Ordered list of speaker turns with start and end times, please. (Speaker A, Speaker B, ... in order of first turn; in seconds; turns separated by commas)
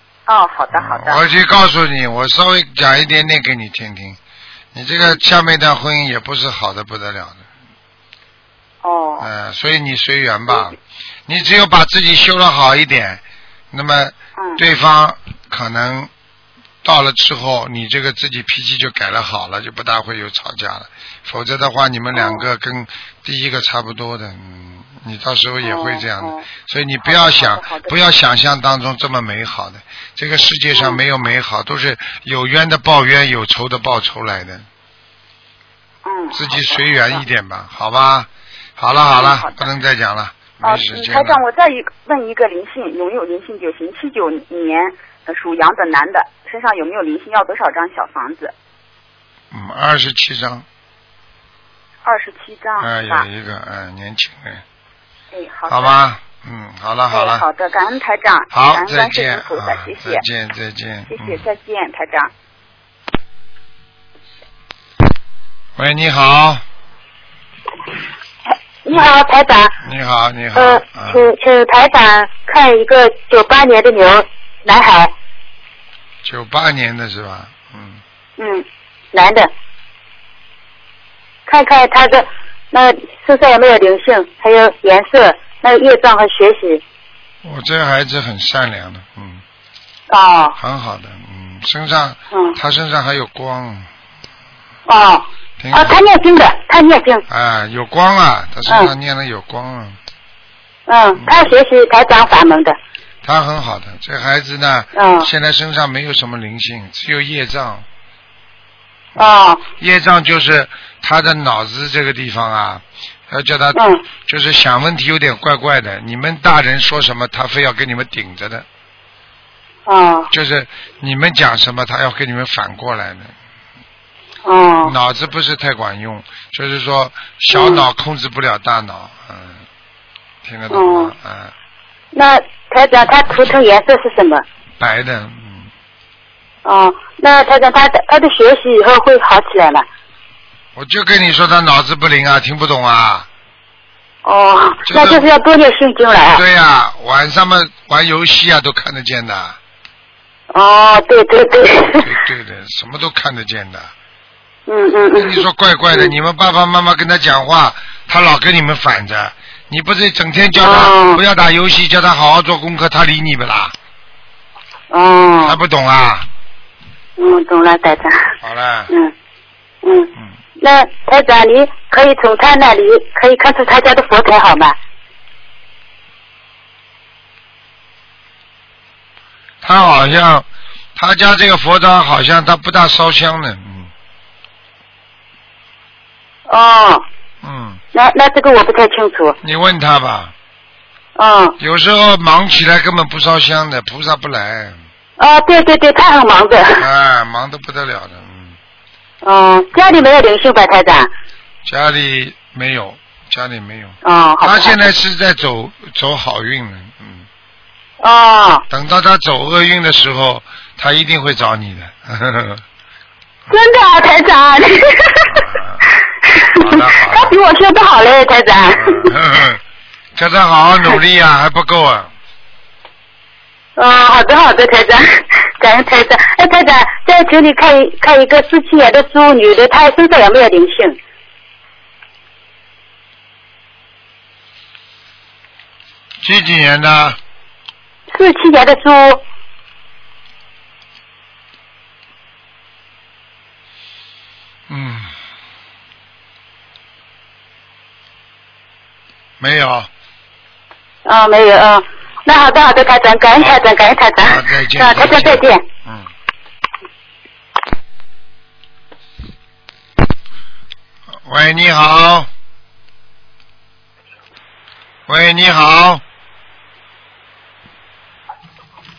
Speaker A: 0.3-1.2, Speaker B: 0.7-4.2, Speaker B: 4.7-7.4, Speaker A: 8.8-9.3, Speaker B: 9.2-13.2, Speaker B: 13.7-16.1, Speaker B: 16.8-34.7, Speaker A: 22.1-22.4, Speaker A: 25.6-26.5, Speaker A: 27.0-28.0, Speaker A: 30.7-31.0, Speaker A: 36.0-37.2, Speaker B: 36.3-41.4, Speaker A: 39.1-39.7, Speaker A: 40.6-48.5, Speaker B: 49.5-50.6, Speaker A: 52.0-53.3, Speaker B: 52.8-54.6, Speaker A: 55.3-56.0, Speaker B: 55.7-57.5, Speaker A: 57.1-60.2, Speaker B: 58.5-61.4, Speaker A: 61.1-62.3, Speaker B: 65.8-66.6, Speaker C: 68.8-69.8, Speaker B: 69.8-71.2, Speaker C: 70.5-75.1, Speaker B: 76.2-78.0, Speaker C: 78.4-79.5, Speaker C: 81.5-86.8, Speaker B: 87.4-89.4, Speaker C: 90.1-90.6, Speaker B: 90.6-93.9, Speaker C: 92.3-92.6, Speaker C: 94.9-97.2, Speaker B: 95.6-96.0, Speaker B: 97.3-100.0, Speaker C: 100.9-102.8, Speaker B: 101.2-101.5, Speaker B: 103.2-107.8, Speaker C: 105.0-105.3, Speaker C: 109.2-109.6, Speaker B: 109.8-118.7, Speaker C: 113.8-114.0, Speaker C: 119.9-120.3, Speaker B: 120.3-123.3, Speaker C: 124.5-124.9, Speaker B: 124.8-129.6, Speaker C: 127.5-127.8, Speaker B: 130.4-131.5, Speaker C: 130.7-131.1, Speaker C: 132.1-134.4, Speaker B: 134.8-135.7, Speaker C: 136.7-139.9, Speaker B: 140.8-143.3, Speaker C: 144.2-146.4, Speaker B: 144.8-145.3, Speaker B: 146.3-149.6, Speaker C: 150.5-152.1, Speaker B: 151.8-153.9, Speaker C: 154.7-156.1, Speaker B: 155.1-163.7, Speaker C: 160.6-161.2, Speaker C: 164.9-165.6, Speaker B: 165.4-166.3, Speaker C: 167.2-168.3, Speaker B: 168.4-168.9, Speaker C: 169.8-174.8, Speaker B: 179.6-183.9, Speaker C: 186.5-187.0, Speaker B: 187.4-187.8, Speaker C: 187.9-189.4, Speaker B: 189.4-190.3, Speaker C: 191.2-191.6, Speaker B: 191.6-194.8, Speaker C: 195.2-196.9, Speaker B: 196.8-198.6, Speaker C: 199.2-201.1, Speaker B: 201.7-207.3, Speaker C: 204.0-204.8, Speaker C: 208.0-208.7, Speaker B: 208.7-212.6, Speaker C: 213.5-215.4, Speaker B: 215.3-215.9, Speaker C: 216.3-219.1, Speaker B: 216.5-217.4, Speaker B: 218.7-219.6, Speaker B: 220.2-222.1, Speaker C: 223.8-231.0, Speaker B: 236.2-237.2, Speaker C: 238.1-239.2, Speaker B: 244.7-245.1, Speaker B: 249.4-249.9, Speaker C: 251.1-255.6, Speaker B: 253.3-253.6, Speaker B: 254.2-256.1, Speaker B: 261.2-262.3, Speaker B: 265.1-266.0